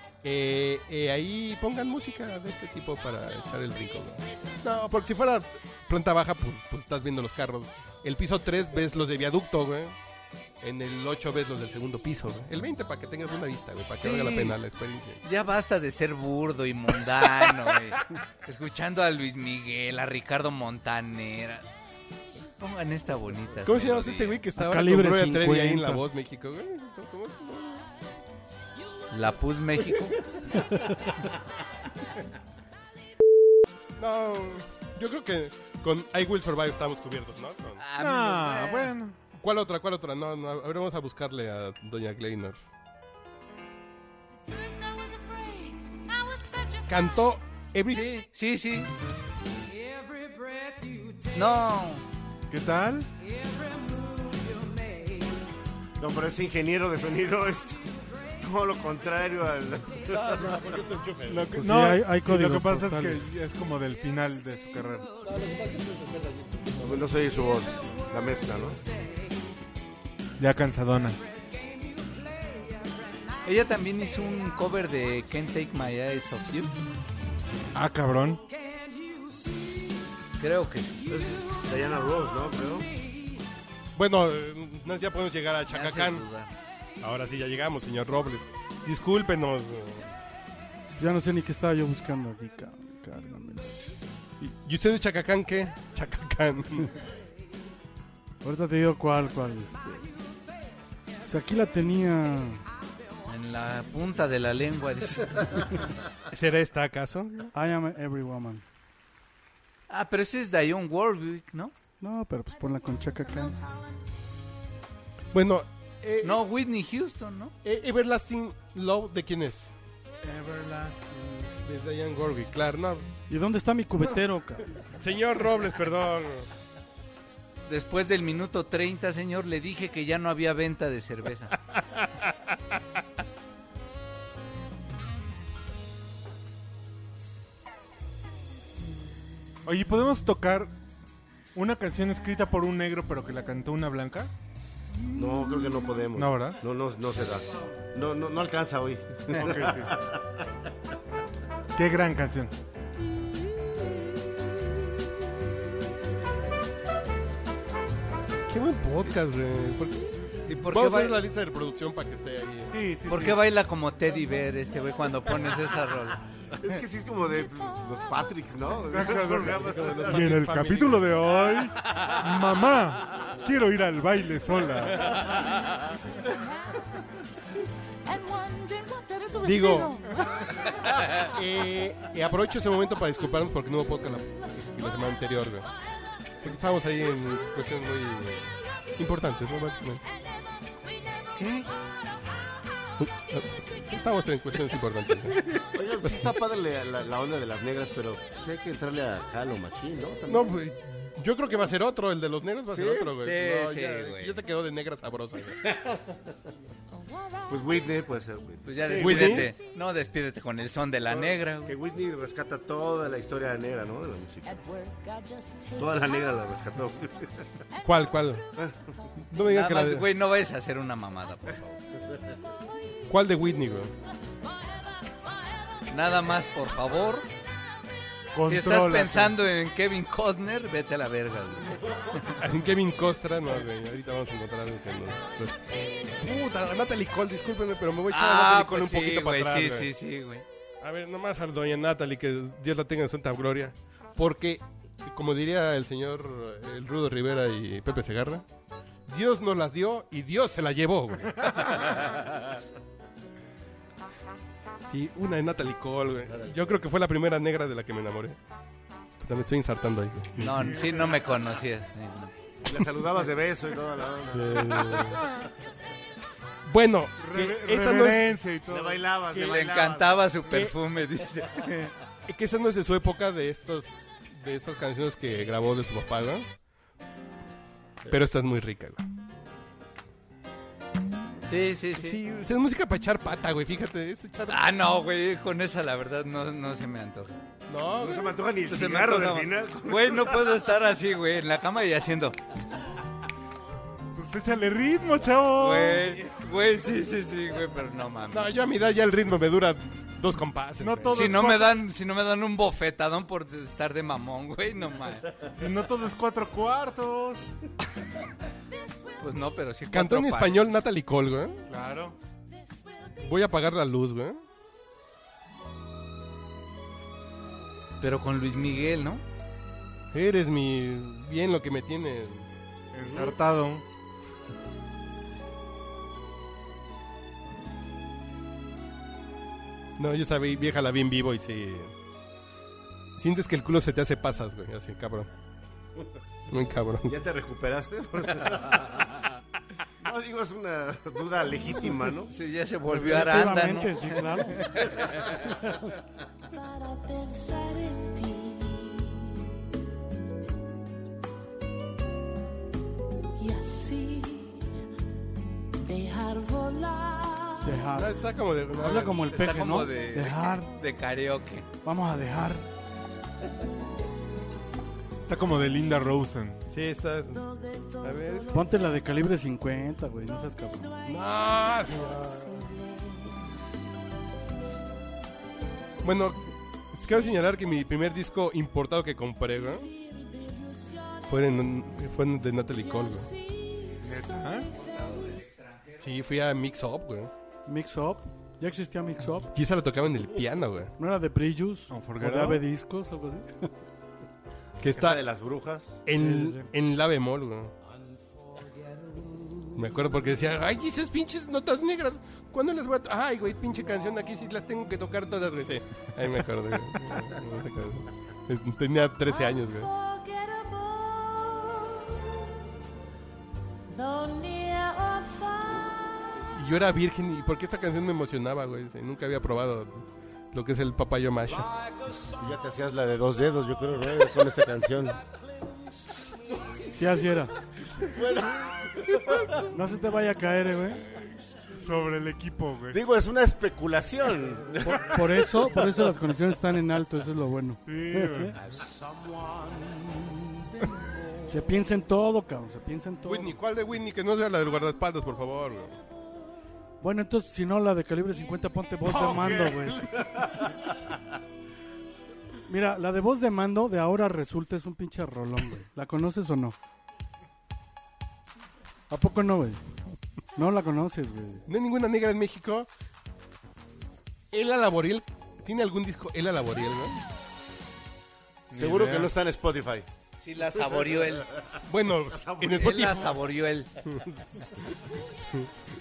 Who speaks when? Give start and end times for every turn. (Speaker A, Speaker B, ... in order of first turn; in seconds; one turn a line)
Speaker A: 0.2-9.9
Speaker A: 10.6-15.2
Speaker B: 14.0-14.6
Speaker B: 15.2-21.7
Speaker B: 22.6-24.4
Speaker A: 23.6-27.9
Speaker C: 24.6-26.0
Speaker B: 29.1-30.2
Speaker A: 34.0-37.8
Speaker B: 37.8-39.0
Speaker D: 38.0-39.1
Speaker A: 39.4-42.6
Speaker E: 44.5-47.3
Speaker A: 46.9-48.1
Speaker B: 47.9-48.9
Speaker E: 49.7-51.6
Speaker B: 51.3-52.0
Speaker D: 52.5-53.1
Speaker E: 53.2-55.4
Speaker F: 56.0-60.8
Speaker A: 60.1-61.5
Speaker D: 61.3-65.1
Speaker C: 61.6-63.2
Speaker A: 65.3-66.5
Speaker F: 66.8-68.8
Speaker D: 70.4-71.2
Speaker E: 71.5-73.3
Speaker B: 73.5-76.7
Speaker D: 77.7-78.4
Speaker E: 78.7-80.0
Speaker B: 80.4-81.0
Speaker F: 81.1-82.9
Speaker E: 81.3-81.7
Speaker A: 84.0-86.2
Speaker B: 85.7-86.5
Speaker A: 87.0-90.1
Speaker C: 91.0-94.0
Speaker A: 94.4-96.9
Speaker C: 98.4-100.1
Speaker C: 101.2-102.6
Speaker B: 103.3-105.7
Speaker A: 106.3-107.5
Speaker C: 107.5-108.6
Speaker B: 109.9-111.7
Speaker C: 112.0-113.5
Speaker A: 115.3-116.4
Speaker B: 116.2-117.5
Speaker A: 117.6-119.7
Speaker D: 120.2-121.5
Speaker A: 121.6-123.1
Speaker C: 123.3-124.6
Speaker A: 125.0-126.5
Speaker B: 127.7-131.5
Speaker D: 139.7-140.7
Speaker D: 141.5-144.3
Speaker F: 145.1-150.4
Speaker D: 146.2-146.6
Speaker D: 149.3-149.9
Speaker D: 151.8-152.5
Speaker A: 158.5-162.8
Speaker B: 160.5-161.2
Speaker D: 162.7-163.4
Speaker B: 163.1-166.2
Speaker F: 166.6-170.3
Speaker D: 168.9-175.4
Speaker A: 169.5-171.2
Speaker E: 178.1-180.7
Speaker A: 179.4-180.0
Speaker A: 181.2-185.7
Speaker A: 186.4-190.0
Speaker B: 191.4-191.7
Speaker A: 193.0-196.2
Speaker F: 195.7-200.5
Speaker A: 200.3-205.6
Speaker F: 202.7-203.1
Speaker B: 203.2-204.4
Speaker F: 205.6-206.2
Speaker F: 207.5-209.5
Speaker B: 208.7-211.8
Speaker A: 208.9-209.5
Speaker F: 211.1-214.6
Speaker E: 214.5-216.0
Speaker F: 215.8-217.5
Speaker A: 217.8-218.4
Speaker A: 219.3-220.1
Speaker B: 219.4-221.8
Speaker A: 223.1-223.9
Speaker B: 225.9-227.3
Speaker D: 228.3-229.4
Speaker B: 228.4-231.7
Speaker A: 232.4-239.9
Speaker B: 238.1-240.4
Speaker A: 240.8-248.4
Speaker A: 249.1-251.5
Speaker A: 254.9-258.4
Speaker F: 256.3-256.7
Speaker A: 259.2-260.7
Speaker B: 260.4-262.3
Speaker D: 260.4-261.2
Speaker F: 262.6-265.2
Speaker A: 264.3-265.2
Speaker A: 266.7-268.4
Speaker D: 267.2-269.1
Speaker F: 268.7-270.2
Speaker B: 269.3-271.9
Speaker A: 272.3-276.5
Speaker A: 278.1-279.0
Speaker B: 281.5-282.2
Speaker A: 282.0-284.6
Speaker B: 284.5-287.3
Speaker A: 287.7-289.3
Speaker F: 288.0-290.6
Speaker B: 288.7-292.4
Speaker D: 294.1-296.2
Speaker B: 295.6-298.5
Speaker A: 298.3-301.4
Speaker D: 300.8-301.8
Speaker B: 301.1-305.3
Speaker D: 305.5-307.5
Speaker B: 309.2-310.6
Speaker A: 309.9-311.6
Speaker D: 311.7-312.2
Speaker A: 313.2-314.4
Speaker B: 318.0-319.2
Speaker A: 320.1-322.5
Speaker D: 322.9-323.8
Speaker A: 330.0-331.9
Speaker A: 333.2-335.3
Speaker A: 336.5-337.2
Speaker F: 337.1-339.1
Speaker F: 340.0-342.3
Speaker B: 342.3-345.6
Speaker C: 342.9-344.6
Speaker E: 346.5-349.3
Speaker E: 353.4-354.7
Speaker E: 355.8-357.8
Speaker C: 357.6-358.2
Speaker A: 357.9-359.4
Speaker C: 358.8-360.7
Speaker B: 359.3-361.7
Speaker C: 361.8-362.7
Speaker D: 365.2-366.6
Speaker A: 366.7-367.5
Speaker E: 367.7-368.4
Speaker A: 368.0-368.6
Speaker C: 368.5-370.9
Speaker A: 371.1-372.7
Speaker E: 372.9-373.3
Speaker A: 376.0-376.4
Speaker A: 376.9-379.9
Speaker E: 380.6-381.0
Speaker A: 381.3-383.3
Speaker D: 384.0-384.7
Speaker B: 385.0-385.9
Speaker A: 386.0-387.3
Speaker C: 387.7-389.5
Speaker A: 389.5-390.9
Speaker C: 391.0-393.7
Speaker D: 391.9-392.6
Speaker A: 394.8-395.2
Speaker F: 394.9-396.0
Speaker A: 396.1-397.7
Speaker C: 396.1-396.7
Speaker A: 399.7-409.9
Speaker E: 409.3-412.1
Speaker E: 413.9-416.4
Speaker A: 416.6-421.7
Speaker F: 422.4-425.2
Speaker C: 426.9-427.5
Speaker F: 428.0-429.5
Speaker C: 429.7-431.1
Speaker D: 431.8-433.0
Speaker F: 432.9-435.2
Speaker C: 434.9-438.6
Speaker D: 437.9-438.6
Speaker C: 441.5-443.6
Speaker A: 443.3-446.0
Speaker C: 447.0-450.1
Speaker F: 449.1-450.9
Speaker C: 452.7-456.8
Speaker C: 459.1-459.8
Speaker C: 460.6-461.7
Speaker A: 461.7-462.9
Speaker A: 464.5-467.2
Speaker D: 468.7-469.3
Speaker F: 468.7-470.1
Speaker B: 470.4-471.5
Speaker A: 471.9-473.4
Speaker F: 472.3-473.1
Speaker B: 472.8-473.9
Speaker A: 474.1-474.9